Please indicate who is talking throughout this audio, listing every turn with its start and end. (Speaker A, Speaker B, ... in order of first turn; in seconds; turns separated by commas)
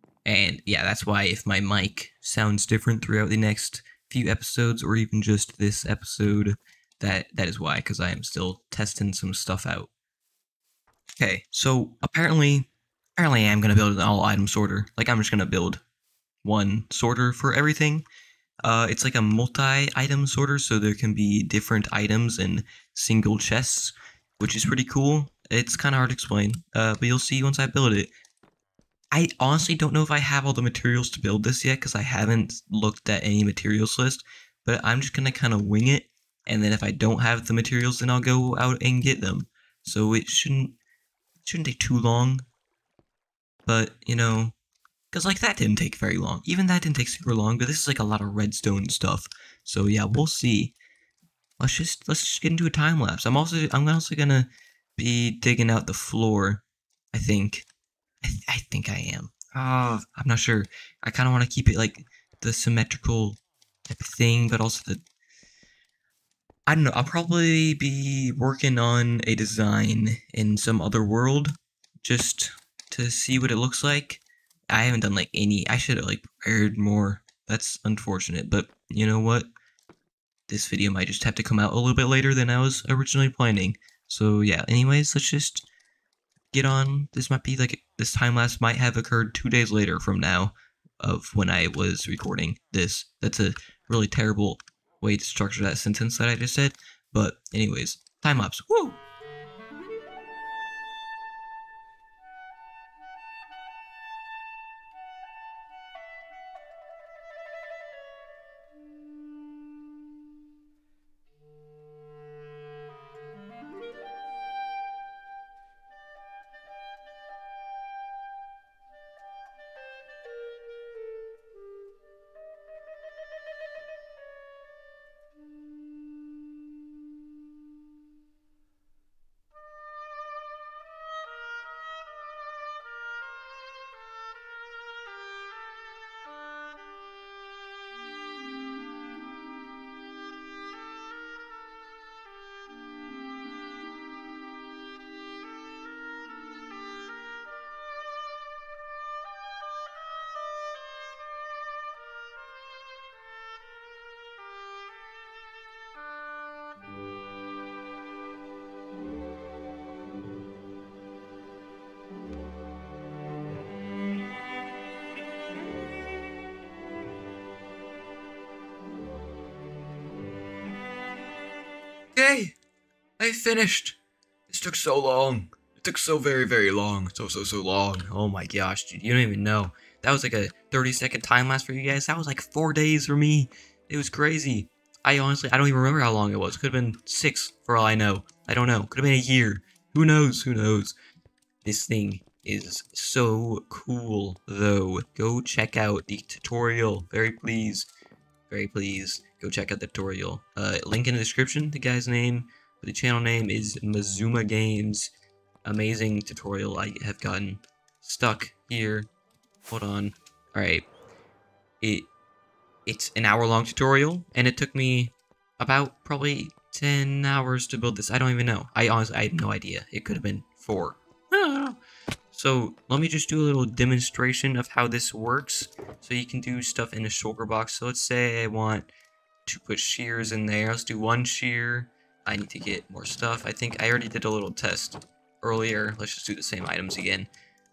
Speaker A: 0.2-9.9, Speaker A: 11.2-15.8, Speaker A: 16.4-18.1, Speaker A: 18.6-28.1, Speaker A: 29.1-40.8, Speaker A: 41.4-42.4, Speaker A: 43.6-44.5, Speaker A: 45.1-50.8, Speaker A: 51.6-57.6, Speaker A: 58.2-63.4, Speaker A: 63.9-65.0, Speaker A: 66.7-79.5, Speaker A: 80.5-85.7, Speaker A: 86.5-99.0, Speaker A: 172.2-172.5, Speaker A: 173.2-190.9, Speaker A: 191.6-197.9, Speaker A: 198.5-205.1, Speaker A: 205.6-209.1, Speaker A: 209.7-210.8, Speaker A: 211.8-212.1, Speaker A: 212.8-221.8, Speaker A: 222.3-228.9, Speaker A: 229.4-237.3